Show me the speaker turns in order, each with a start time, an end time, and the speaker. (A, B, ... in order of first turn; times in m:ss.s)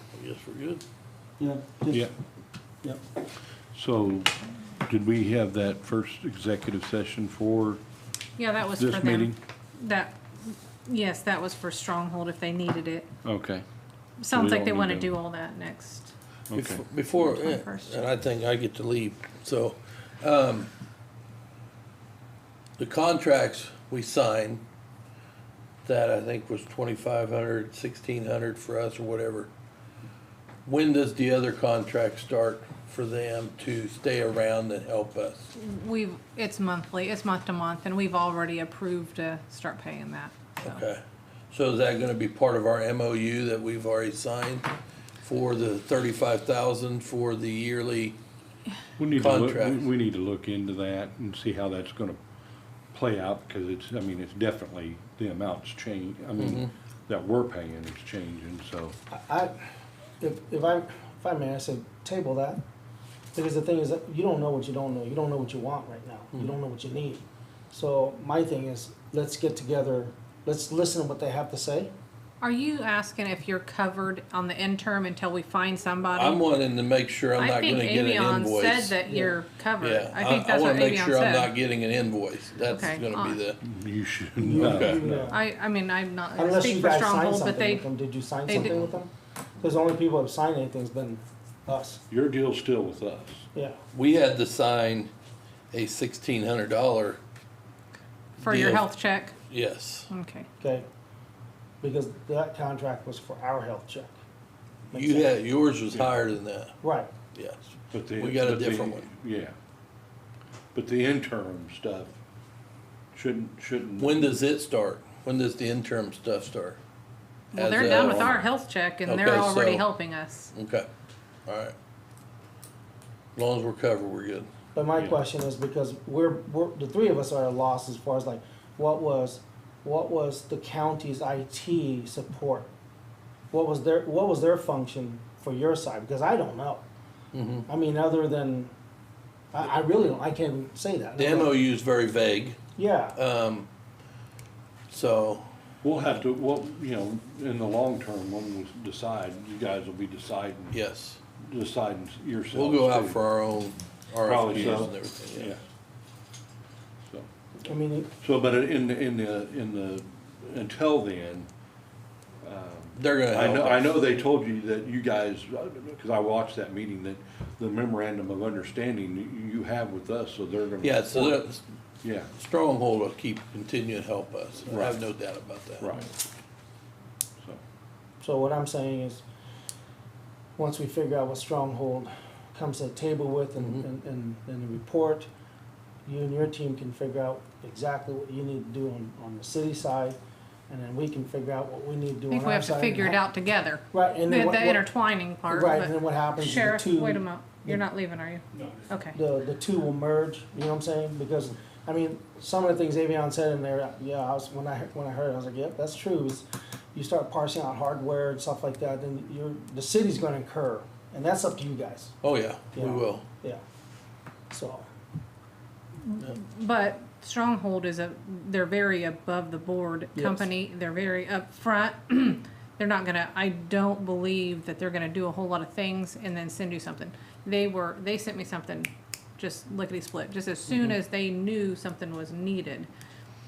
0:00.1-0:00.8 A
0:01.4-0:02.1 B
0:03.7-0:04.3 C
0:04.8-0:07.8 C
0:08.4-0:13.1 D
0:08.8-0:09.4 C
0:13.2-0:13.6 C
0:14.2-0:16.1 D
0:14.3-0:15.1 C
0:16.5-0:16.8 C
0:16.5-0:20.7 A
0:17.1-0:18.0 D
0:22.8-0:24.6 A
0:25.8-0:29.5 A
0:30.6-0:35.5 A
0:35.5-0:40.8 D
0:40.6-0:44.7 A
0:45.2-0:48.2 A
0:49.0-0:52.2 C
0:49.1-0:49.9 A
0:52.9-0:59.0 C
0:56.4-0:56.7 A
0:59.1-0:59.5 B
1:00.2-1:02.6 B
1:03.3-1:11.9 B
1:12.4-1:16.5 D
1:16.1-1:19.0 A
1:17.4-1:21.5 D
1:19.0-1:19.4 B
1:19.8-1:23.6 A
1:22.7-1:23.4 D
1:23.6-1:25.3 C
1:24.4-1:25.4 B
1:24.4-1:25.0 A
1:25.2-1:27.9 D
1:26.4-1:32.0 B
1:28.4-1:28.9 D
1:32.1-1:33.4 C
1:33.9-1:35.1 A
1:35.7-1:37.2 A
1:38.4-1:39.4 D
1:38.4-1:38.9 A
1:39.4-1:40.1 A
1:40.1-1:40.5 D
1:40.6-1:40.8 B
1:41.8-1:44.2 B
1:44.9-1:45.4 B
1:44.9-1:46.8 A
1:46.8-1:47.1 B
1:47.3-1:49.1 A
1:47.9-1:49.5 C
1:50.7-1:52.2 C
1:53.1-1:54.3 C
1:54.0-1:56.8 A
1:57.5-2:00.5 D
1:57.5-1:58.4 A
1:59.0-1:59.9 A
2:00.5-2:00.9 A
2:01.5-2:01.7 A
2:03.4-2:04.5 A
2:04.7-2:12.7 B
2:13.5-2:16.8 B
2:17.3-2:17.7 A
2:17.7-2:18.7 B
2:19.5-2:21.5 B
2:21.2-2:22.6 A
2:22.8-2:23.2 B
2:23.1-2:23.7 A
2:24.9-2:25.5 A
2:25.8-2:30.8 C
2:30.7-2:31.2 A
2:31.4-2:33.2 C
2:32.5-2:35.5 A
2:34.2-2:35.6 C
2:37.0-2:37.3 C
2:37.6-2:38.1 B
2:38.2-2:41.5 C
2:42.4-2:51.4 C
2:42.9-2:43.9 A
2:50.8-2:51.6 A
2:52.0-2:52.3 C
2:52.3-2:56.0 A
2:54.7-2:55.0 C
2:55.8-2:56.1 C
2:58.2-2:59.2 B
3:00.6-3:05.3 B
3:03.6-3:03.8 A
3:06.0-3:10.2 B
3:10.7-3:13.2 B
3:12.3-3:19.2 D
3:13.9-3:14.9 B
3:15.5-3:17.8 B
3:19.1-3:32.1 B
3:32.2-3:33.2 A
3:32.7-3:33.6 B
3:34.5-3:34.8 B
3:36.0-3:52.9 D
3:40.2-3:40.5 B